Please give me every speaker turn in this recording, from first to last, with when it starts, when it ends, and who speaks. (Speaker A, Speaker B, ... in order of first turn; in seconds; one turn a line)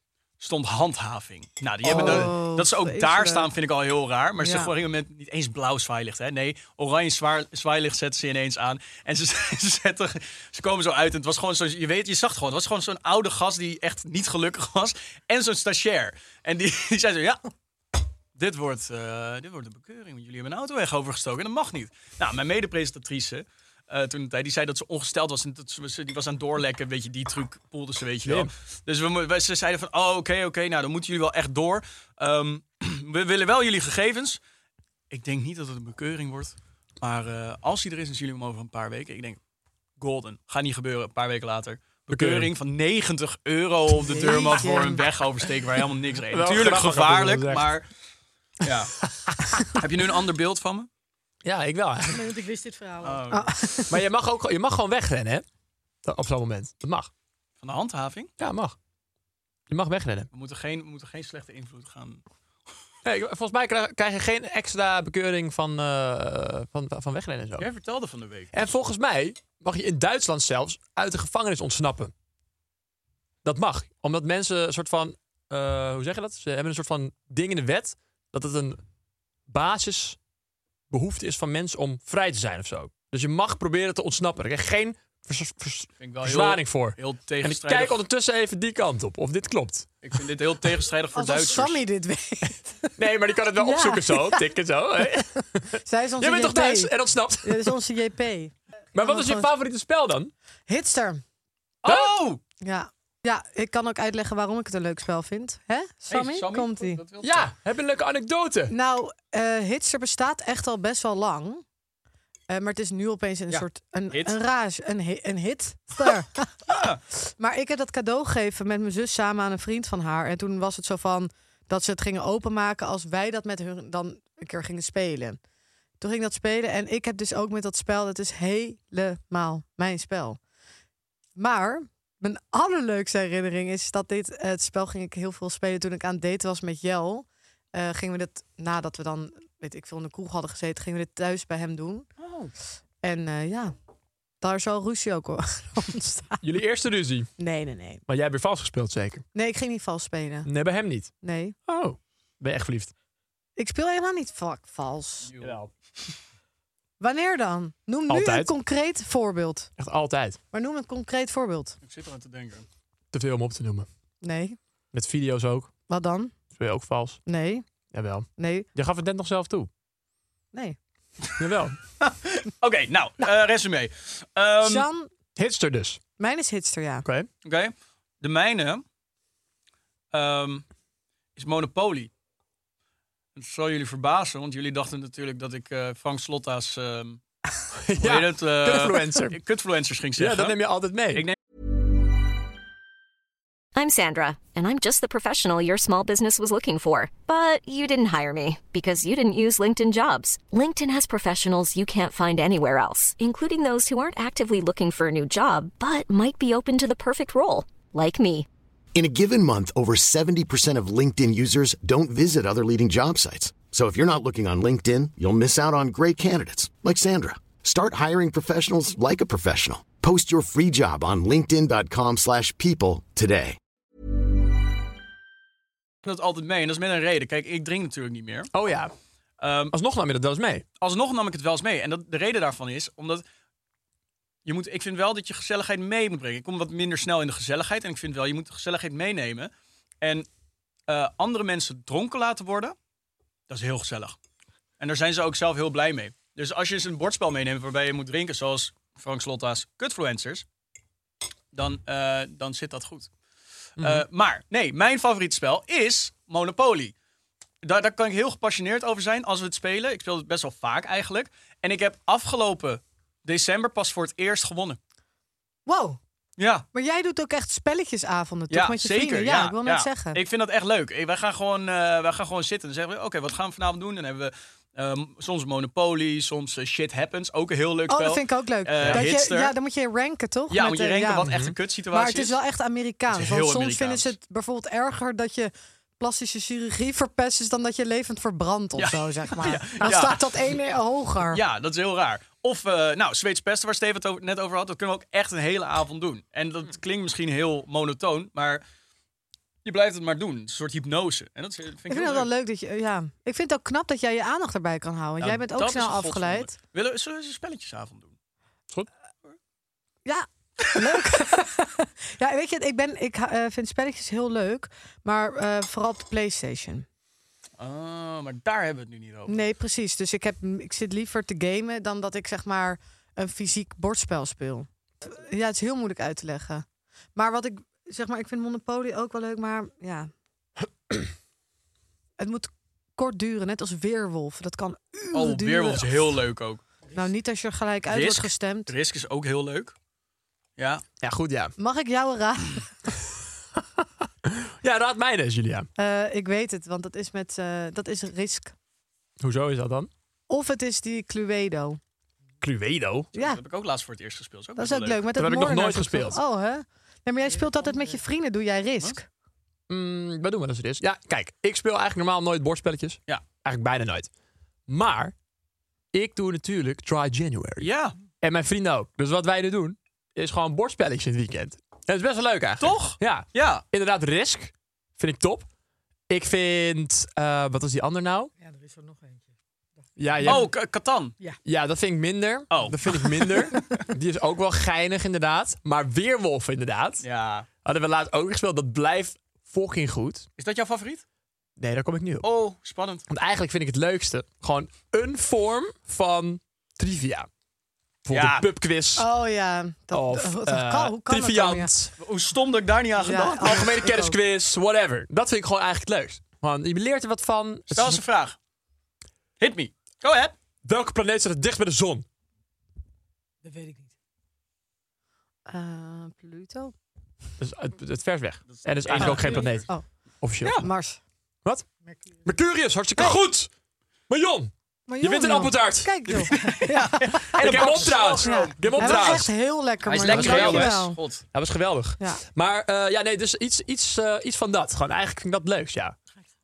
Speaker A: 0.4-17.4
Speaker B: 1.8-3.5
Speaker C: 1.9-2.3
Speaker B: 4.4-4.7
Speaker A: 18.4-34.4
Speaker C: 28.2-28.5
Speaker A: 35.1-39.4
Speaker A: 40.0-47.9
Speaker C: 42.1-42.5
Speaker B: 43.9-45.0
Speaker C: 46.3-47.7
Speaker A: 48.6-49.0
Speaker C: 49.0-49.6
Speaker A: 49.6-50.9
Speaker C: 51.4-52.3
Speaker D: 52.1-53.3
Speaker A: 53.0-53.5
Speaker B: 53.3-53.9
Speaker C: 53.9-55.5
Speaker C: 56.0-57.1
Speaker A: 57.6-58.3
Speaker C: 58.4-58.8
Speaker C: 59.7-60.3
Speaker A: 60.3-62.2
Speaker C: 63.0-67.7
Speaker A: 67.6-68.7
Speaker C: 68.5-72.1
Speaker C: 73.4-78.8
Speaker C: 79.5-80.2
Speaker C: 80.9-89.9
Speaker A: 86.0-88.0
Speaker A: 90.0-91.8
Speaker B: 91.1-92.9
Speaker C: 93.0-97.8
Speaker B: 93.5-94.5
Speaker B: 95.7-99.5
Speaker C: 98.9-100.3
Speaker B: 100.7-101.2
Speaker A: 101.8-102.4
Speaker C: 101.8-102.2
Speaker B: 102.6-107.0
Speaker A: 106.1-107.5
Speaker C: 107.2-108.7
Speaker B: 108.7-111.6
Speaker B: 112.5-116.5
Speaker A: 113.5-114.3
Speaker A: 116.7-117.0
Speaker B: 117.2-125.4
Speaker B: 126.0-130.4
Speaker B: 131.3-142.1
Speaker B: 143.0-143.7
Speaker B: 144.4-146.4
Speaker C: 146.4-147.3
Speaker B: 147.4-148.0
Speaker C: 148.1-149.2
Speaker B: 149.3-150.5
Speaker C: 150.4-151.1
Speaker B: 151.2-151.6
Speaker C: 151.7-152.9
Speaker B: 153.6-155.3
Speaker A: 155.3-155.6
Speaker C: 155.4-155.7
Speaker B: 157.0-159.7
Speaker C: 158.1-158.5
Speaker C: 159.8-160.4
Speaker B: 160.5-161.8
Speaker A: 161.8-162.7
Speaker C: 163.1-163.9
Speaker B: 164.2-164.6
Speaker C: 164.9-165.7
Speaker B: 165.9-166.3
Speaker C: 166.6-167.2
Speaker B: 167.2-167.6
Speaker C: 167.9-169.7
Speaker B: 168.4-168.7
Speaker C: 171.4-171.8
Speaker A: 172.0-174.9
Speaker B: 174.6-175.1
Speaker C: 175.4-176.0
Speaker B: 176.2-177.1
Speaker A: 177.4-178.8
Speaker A: 180.1-180.7
Speaker A: 181.3-182.1
Speaker A: 183.3-187.2
Speaker C: 187.7-189.4
Speaker A: 188.0-190.6
Speaker C: 190.2-191.2
Speaker E: 193.7-208.4
Speaker F: 208.9-223.6
Speaker A: 226.0-228.5
Speaker C: 228.5-228.9
Speaker A: 229.4-229.7
Speaker C: 229.7-230.6
Speaker A: 230.8-233.2
Speaker A: 234.4-239.5
Speaker A: 240.0-240.3
Speaker A: 240.9-242.7
Speaker A: 243.5-244.2
Speaker A: 244.8-250.4
Speaker A: 251.5-253.1
Speaker A: 253.8-256.9
Speaker C: 253.8-254.0
Speaker A: 257.6-264.8
Speaker B: 265.6-266.0
Speaker A: 266.4-266.6
Speaker B: 266.7-270.2
Speaker A: 268.5-279.5
Speaker B: 277.9-281.3
Speaker A: 280.5-282.4
Speaker C: 281.3-281.5
Speaker B: 281.9-291.4
Speaker A: 283.1-284.1
Speaker A: 288.8-290.5
Speaker A: 291.3-298.6
Speaker A: 299.6-302.3
Speaker B: 301.9-306.5
Speaker A: 305.2-308.1
Speaker B: 310.0-316.9
Speaker A: 317.6-319.4
Speaker B: 319.3-330.1
Speaker B: 332.2-336.1
Speaker A: 335.1-336.6
Speaker B: 336.9-338.7
Speaker A: 337.9-339.7
Speaker A: 340.6-340.8
Speaker C: 341.0-341.5
Speaker B: 341.6-342.7
Speaker C: 344.2-345.7
Speaker B: 345.8-348.5
Speaker C: 349.2-349.9
Speaker B: 350.3-351.8
Speaker C: 352.4-353.1
Speaker B: 353.1-353.4
Speaker A: 353.1-355.0
Speaker B: 354.6-359.1
Speaker C: 355.1-356.2
Speaker D: 357.4-358.0
Speaker C: 359.7-364.1
Speaker C: 364.7-365.1
Speaker C: 365.9-375.5
Speaker A: 367.6-367.9
Speaker A: 372.6-373.6
Speaker C: 376.1-378.3
Speaker D: 378.4-380.3
Speaker C: 380.0-380.5
Speaker A: 380.2-381.1
Speaker C: 381.4-387.0
Speaker A: 382.5-383.1
Speaker A: 387.0-387.5
Speaker C: 387.6-390.3
Speaker A: 390.4-391.0
Speaker C: 391.6-392.3
Speaker A: 392.2-393.0
Speaker C: 393.1-397.3
Speaker C: 398.0-399.1
Speaker A: 398.1-398.4
Speaker B: 399.0-401.7
Speaker C: 399.9-401.9
Speaker A: 402.0-403.7
Speaker B: 403.0-404.2
Speaker C: 403.4-408.0
Speaker A: 407.7-408.4
Speaker A: 409.4-410.3
Speaker C: 410.6-412.0
Speaker D: 413.4-413.9
Speaker B: 415.5-416.7
Speaker C: 417.4-419.7
Speaker A: 418.5-419.6
Speaker B: 419.0-419.9
Speaker C: 420.2-420.6
Speaker B: 420.6-421.0
Speaker C: 422.2-423.5
Speaker B: 423.0-423.2
Speaker C: 424.1-426.2
Speaker B: 424.9-427.3
Speaker A: 426.3-429.2
Speaker D: 426.4-426.7
Speaker C: 427.3-429.3
Speaker B: 428.2-431.0
Speaker A: 429.9-431.2
Speaker C: 430.0-435.9